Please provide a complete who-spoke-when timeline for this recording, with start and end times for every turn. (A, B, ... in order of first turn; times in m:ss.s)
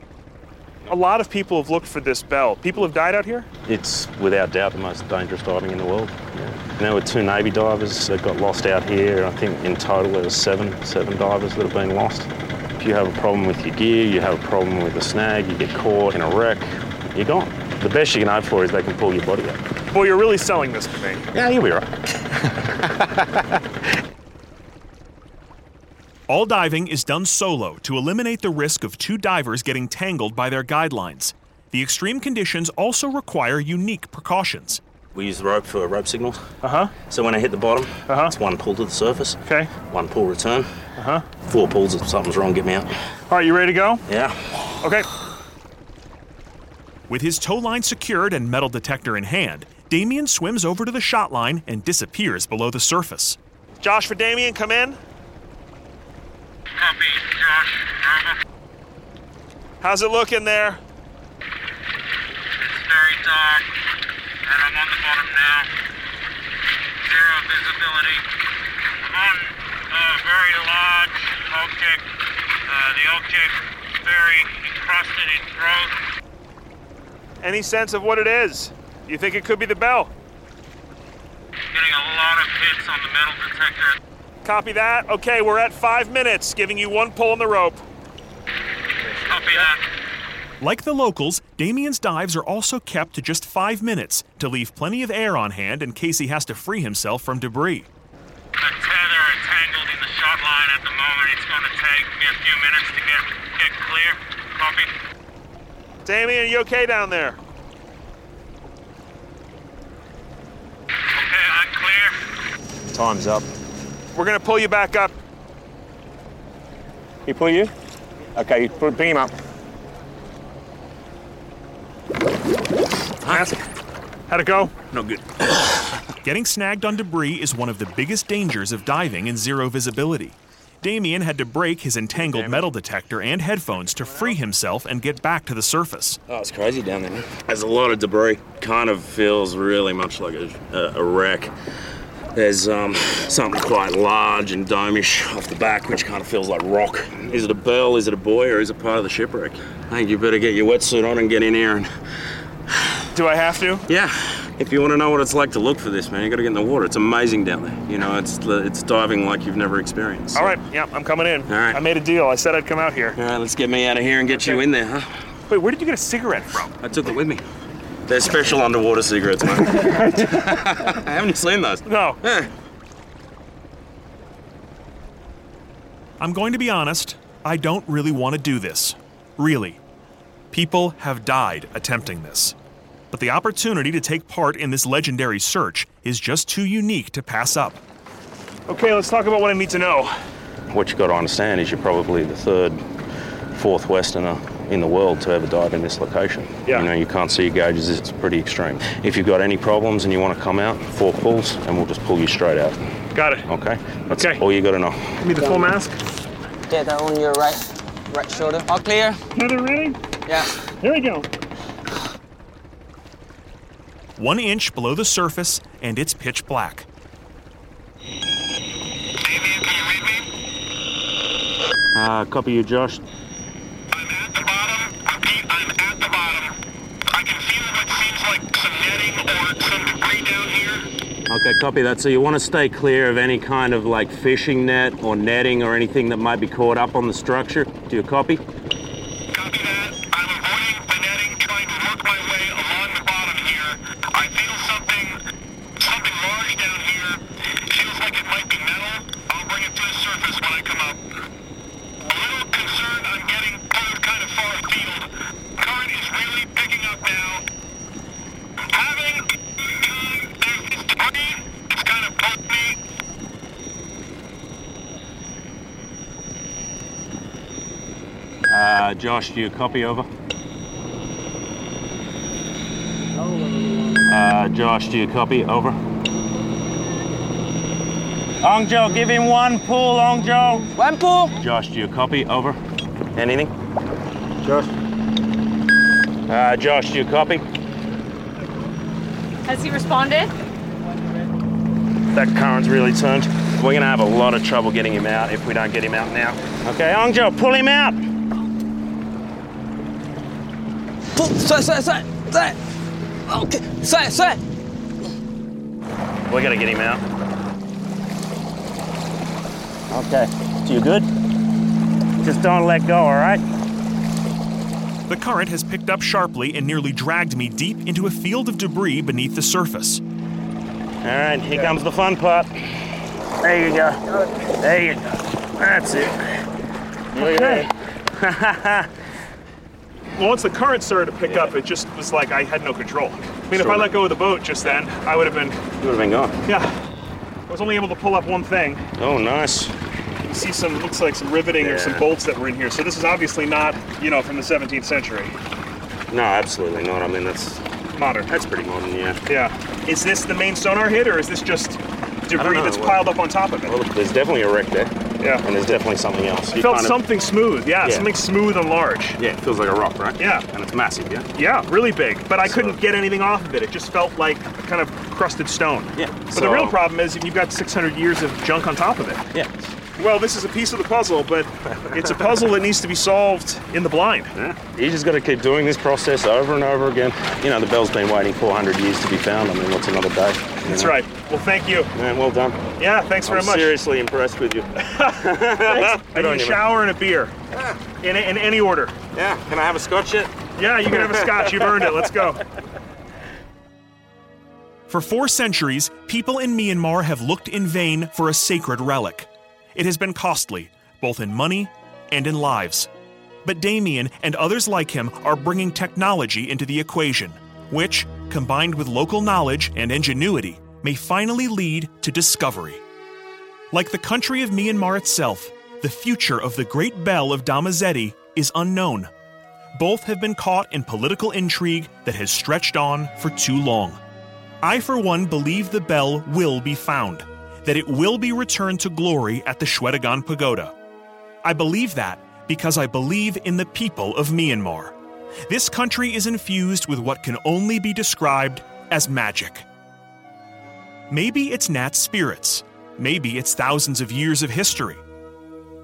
0:00.9-0:03.5 A
0:03.7-0:19.6 B
0:19.9-0:21.2 A
0:21.3-0:21.9 B
0:26.3-0:34.8 C
0:35.2-0:36.5 B
0:36.6-0:36.9 A
0:37.0-0:40.7 B
0:38.1-0:38.4 A
0:39.5-0:39.7 A
0:41.0-0:41.2 A
0:41.4-0:42.9 B
0:43.3-0:44.0 A
0:44.1-0:44.6 B
0:44.8-0:45.1 A
0:47.1-0:53.4 C
0:53.8-0:55.0 A
0:56.8-0:58.4 D
0:59.8-1:00.8 A
1:02.7-1:03.6 D
1:04.5-1:05.7 D
1:07.0-1:08.2 D
1:09.1-1:12.0 D
1:12.7-1:15.9 D
1:17.4-1:20.1 A
1:21.7-1:24.0 D
1:24.4-1:27.8 A
1:29.3-1:29.8 D
1:30.6-1:37.9 C
1:38.6-1:44.9 D
1:46.0-1:47.4 A
1:51.2-1:52.1 D
1:52.9-1:53.4 B
1:54.1-1:55.1 A
1:57.3-1:57.7 B
1:58.4-1:59.3 B
2:03.3-2:03.6 A
2:04.3-2:04.9 A
2:04.9-2:05.2 B
2:06.2-2:16.2 C
2:12.4-2:12.6 B
2:16.3-2:21.5 B
2:22.3-2:31.9 B
2:33.1-2:33.8 A
2:33.9-2:40.6 B
2:40.4-2:43.2 A
2:41.5-2:41.8 B
2:43.2-2:45.1 B
2:44.3-2:44.6 A
2:45.5-2:46.7 A
2:46.8-2:47.4 B
2:48.1-2:52.5 B
2:49.7-2:50.4 A
2:51.9-2:52.2 A
2:56.2-2:59.8 C
3:00.5-3:02.6 C
3:03.1-3:07.8 C
3:08.7-3:10.2 A
3:10.7-3:12.8 B
3:13.5-3:22.8 B
3:23.1-3:23.5 A
3:23.5-3:25.2 B
3:24.2-3:24.4 A
3:25.2-3:26.0 A
3:26.7-3:29.2 E
3:29.4-3:30.0 A
3:30.8-3:31.3 A
3:34.2-3:36.9 C
3:39.2-3:40.3 D
3:42.0-3:43.0 B
3:43.9-3:46.6 D
3:47.1-3:50.9 D
3:51.3-3:58.4 B
3:59.3-4:05.2 D
4:05.8-4:11.0 D
4:12.0-4:17.4 D
4:18.6-4:22.8 D
4:28.5-4:30.1 B
4:34.1-4:35.8 B
4:38.4-4:40.7 B
4:40.8-4:41.3 E
4:41.4-4:42.6 B
4:43.2-4:43.5 B
4:44.4-4:44.7 B
4:46.3-4:47.4 B
4:52.1-4:58.0 B
5:01.2-5:02.6 E
5:03.3-5:04.4 E
5:06.3-5:07.0 B
5:09.9-5:11.1 B
5:12.2-5:13.4 B
5:15.1-5:20.0 C
5:21.0-5:22.9 B
5:23.4-5:26.4 B
5:27.1-5:28.9 B
5:27.2-5:27.7 A
5:30.2-5:35.6 A
5:31.3-5:31.6 B
5:33.5-5:34.0 B
5:35.8-5:36.4 B
5:36.5-5:36.8 A
5:37.5-5:38.8 A
5:39.0-5:39.7 B
5:40.2-5:45.4 A
5:41.6-5:42.1 B
5:46.1-5:47.7 B
5:47.9-5:48.3 A
5:48.3-5:49.2 B
5:49.3-5:53.8 A
5:52.4-5:53.1 B
5:53.7-5:57.0 B
5:56.5-5:59.2 A
5:57.8-5:58.1 B
5:59.2-6:01.3 B
6:00.2-6:00.5 A
6:01.4-6:09.2 A
6:02.4-6:02.8 B
6:06.0-6:06.8 B
6:10.0-6:14.3 A
6:14.4-6:21.0 B
6:20.6-6:21.9 A
6:22.0-6:22.6 B
6:22.8-6:23.8 A
6:23.2-6:26.6 B
6:24.8-6:27.3 A
6:28.0-6:29.0 A
6:29.1-6:30.3 B
6:30.6-6:32.4 A
6:30.9-6:32.0 B
6:34.9-6:42.9 C
6:43.4-6:52.8 C
6:53.7-6:59.1 C
6:59.8-7:04.0 C
7:04.6-7:10.7 C
7:11.4-7:15.0 C
7:15.5-7:19.6 C
7:21.1-7:25.0 C